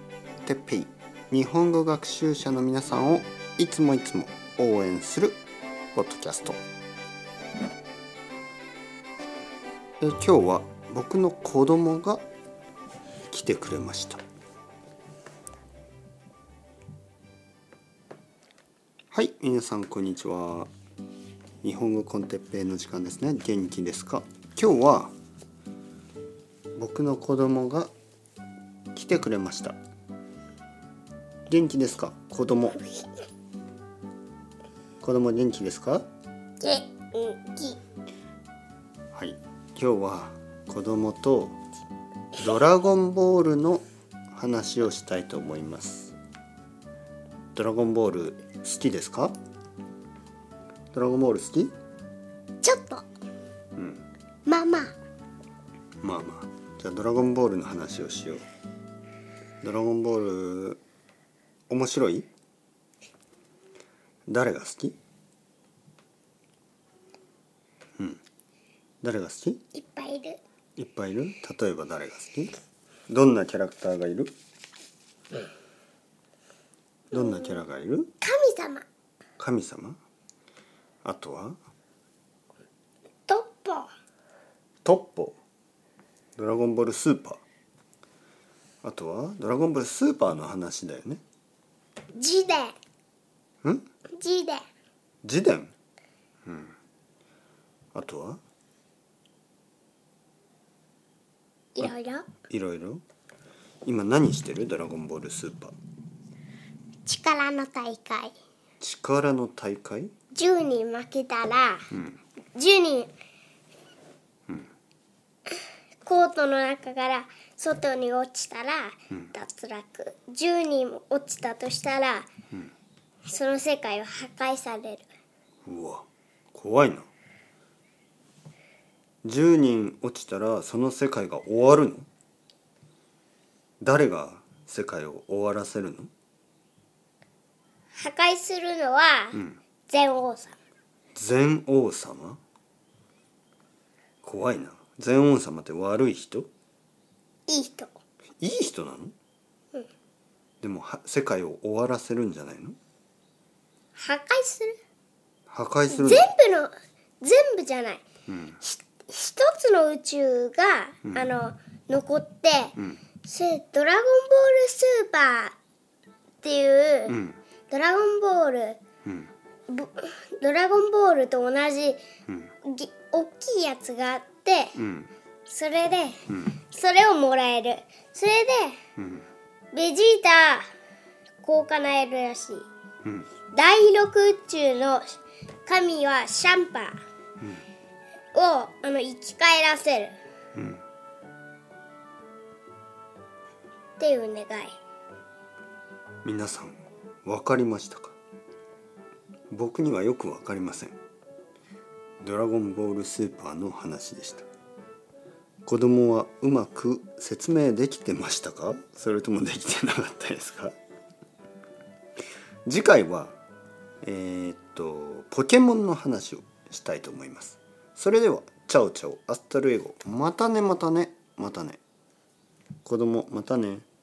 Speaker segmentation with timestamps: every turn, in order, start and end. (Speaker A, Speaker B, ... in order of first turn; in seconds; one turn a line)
Speaker A: 0.4-5.4
Speaker A: 6.0-6.6
Speaker A: 10.0-12.2
Speaker A: 13.3-14.2
Speaker A: 19.1-20.7
Speaker A: 21.6-25.1
Speaker A: 26.8-27.9
Speaker A: 28.9-29.8
Speaker A: 31.5-32.8
Speaker A: 35.0-36.0
Speaker B: 36.6-37.8
Speaker A: 39.1-41.6
Speaker A: 42.4-46.1
Speaker A: 47.5-49.3
Speaker A: 50.9-51.7
Speaker B: 52.6-53.0
Speaker A: 53.8-54.1
Speaker B: 54.5-54.9
Speaker A: 56.0-58.4
Speaker A: 59.6-60.8
Speaker A: 61.7-62.3
Speaker A: 64.3-65.0
Speaker A: 69.0-69.6
Speaker B: 69.7-70.4
Speaker A: 70.8-72.5
Speaker A: 73.1-74.3
Speaker A: 77.1-78.1
Speaker B: 78.2-78.8
Speaker A: 79.4-80.0
Speaker A: 81.0-81.6
Speaker B: 83.3-83.9
Speaker A: 84.8-85.4
Speaker A: 86.4-87.4
Speaker A: 88.8-91.2
Speaker B: 92.2-92.8
Speaker B: 94.2-94.6
Speaker A: 95.2-95.7
Speaker A: 96.5-96.8
Speaker A: 97.9-98.4
Speaker B: 101.8-102.3
Speaker A: 102.5-103.0
Speaker A: 103.8-105.8
Speaker B: 107.1-108.3
Speaker A: 108.8-110.1
Speaker B: 110.3-111.9
Speaker A: 111.9-112.2
Speaker B: 112.6-113.1
Speaker B: 116.0-122.3
Speaker B: 123.3-125.1
Speaker A: 125.7-127.1
Speaker A: 129.2-132.1
Speaker A: 133.8-136.1
Speaker B: 138.0-140.6
Speaker A: 139.3-139.6
Speaker A: 141.2-142.4
Speaker A: 144.2-146.5
Speaker B: 147.5-148.0
Speaker A: 148.4-149.1
Speaker A: 150.6-152.8
Speaker B: 154.0-154.8
Speaker A: 155.5-156.3
Speaker B: 155.9-158.0
Speaker A: 158.3-158.6
Speaker B: 158.6-165.6
Speaker B: 166.4-167.2
Speaker A: 167.1-167.4
Speaker B: 167.7-168.8
Speaker A: 169.1-169.3
Speaker B: 169.7-172.0
Speaker B: 172.6-174.8
Speaker A: 174.8-175.1
Speaker B: 175.5-178.8
Speaker A: 176.3-176.6
Speaker A: 179.0-179.3
Speaker B: 179.7-180.7
Speaker B: 181.4-182.7
Speaker B: 183.5-187.0
Speaker B: 188.3-190.2
Speaker A: 190.6-190.8
Speaker B: 194.0-194.8
Speaker A: 196.2-198.2
Speaker A: 199.5-201.0
Speaker A: 202.2-204.5
Speaker A: 205.7-210.8
Speaker A: 212.7-213.3
Speaker A: 214.0-221.8
Speaker A: 222.8-223.9